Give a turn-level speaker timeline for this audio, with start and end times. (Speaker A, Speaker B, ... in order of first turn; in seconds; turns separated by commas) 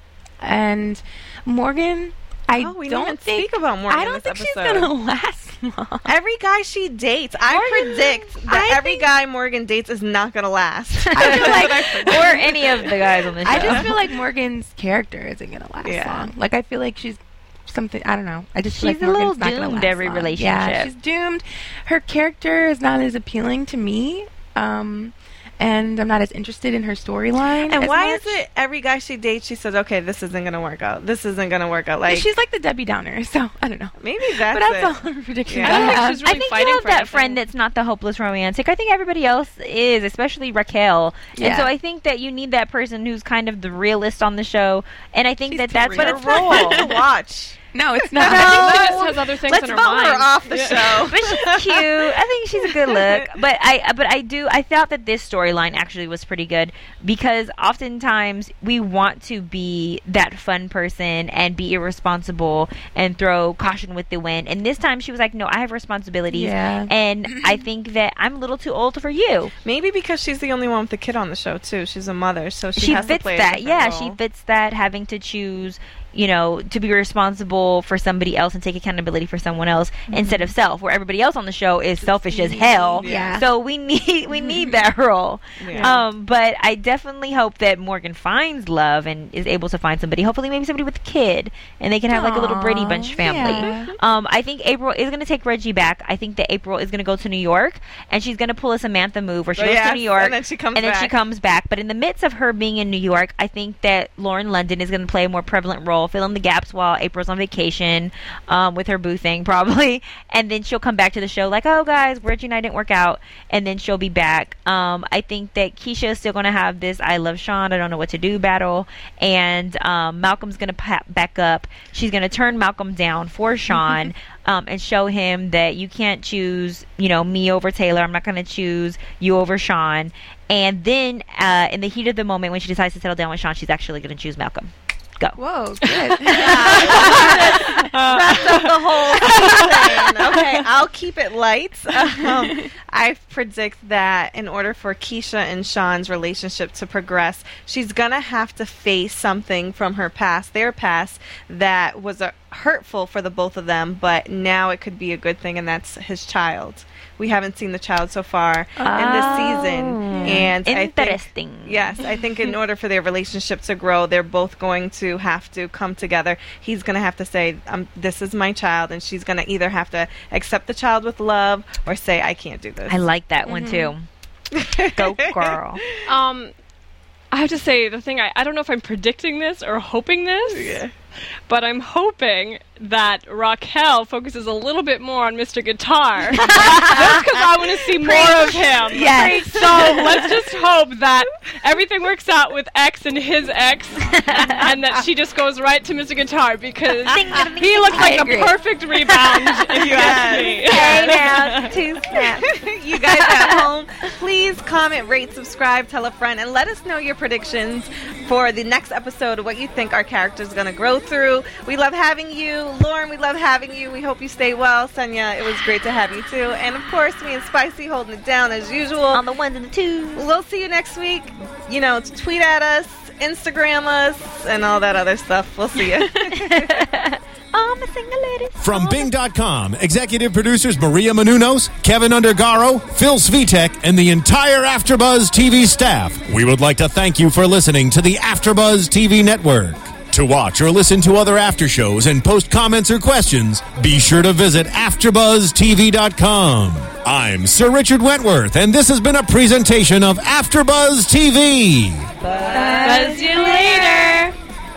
Speaker A: 0.4-6.1, Speaker B: 2.6-4.9, Speaker B: 6.0-12.9, Speaker A: 7.5-9.1, Speaker C: 11.1-13.9, Speaker A: 11.1-12.3, Speaker A: 13.4-28.4, Speaker B: 13.5-13.9, Speaker B: 15.8-16.3, Speaker C: 18.7-20.9, Speaker B: 27.6-32.3, Speaker A: 32.1-36.2, Speaker B: 34.0-34.9, Speaker B: 35.5-36.0, Speaker D: 35.6-37.4, Speaker C: 36.2-46.9, Speaker A: 41.3-41.7, Speaker A: 45.5-47.0, Speaker B: 45.8-47.6, Speaker A: 47.7-49.1, Speaker B: 48.1-51.9, Speaker D: 48.2-51.0, Speaker C: 51.0-69.5, Speaker B: 52.8-53.2, Speaker A: 66.3-67.6, Speaker B: 69.6-74.2, Speaker C: 72.8-137.7, Speaker B: 80.1-80.5, Speaker A: 82.0-83.5, Speaker B: 83.0-83.4, Speaker A: 84.3-84.8, Speaker B: 85.6-86.0, Speaker A: 85.7-86.0, Speaker A: 92.1-93.9, Speaker B: 93.6-93.9, Speaker B: 99.5-101.1, Speaker A: 123.7-124.1, Speaker A: 135.4-137.9, Speaker B: 136.3-173.1, Speaker D: 136.8-140.5, Speaker A: 142.0-142.7, Speaker A: 158.8-159.2, Speaker C: 158.8-161.9, Speaker A: 160.1-160.5, Speaker C: 172.9-174.1, Speaker A: 173.4-173.9, Speaker B: 174.5-175.5, Speaker C: 174.9-175.8, Speaker D: 176.1-176.5, Speaker D: 177.3-180.8, Speaker B: 180.5-180.9, Speaker D: 181.5-201.8, Speaker C: 186.4-187.2, Speaker C: 188.0-190.3, Speaker A: 188.9-190.2, Speaker B: 189.5-190.0, Speaker C: 194.1-194.6, Speaker B: 194.3-195.0, Speaker C: 197.1-198.6, Speaker A: 197.9-198.5, Speaker B: 199.7-201.2, Speaker C: 200.6-202.5, Speaker B: 202.1-219.2, Speaker C: 203.1-203.7, Speaker C: 219.1-220.3, Speaker B: 220.2-226.9, Speaker C: 226.7-229.1, Speaker E: 228.6-252.1, Speaker C: 252.2-254.2, Speaker A: 252.5-253.2, Speaker D: 252.5-254.3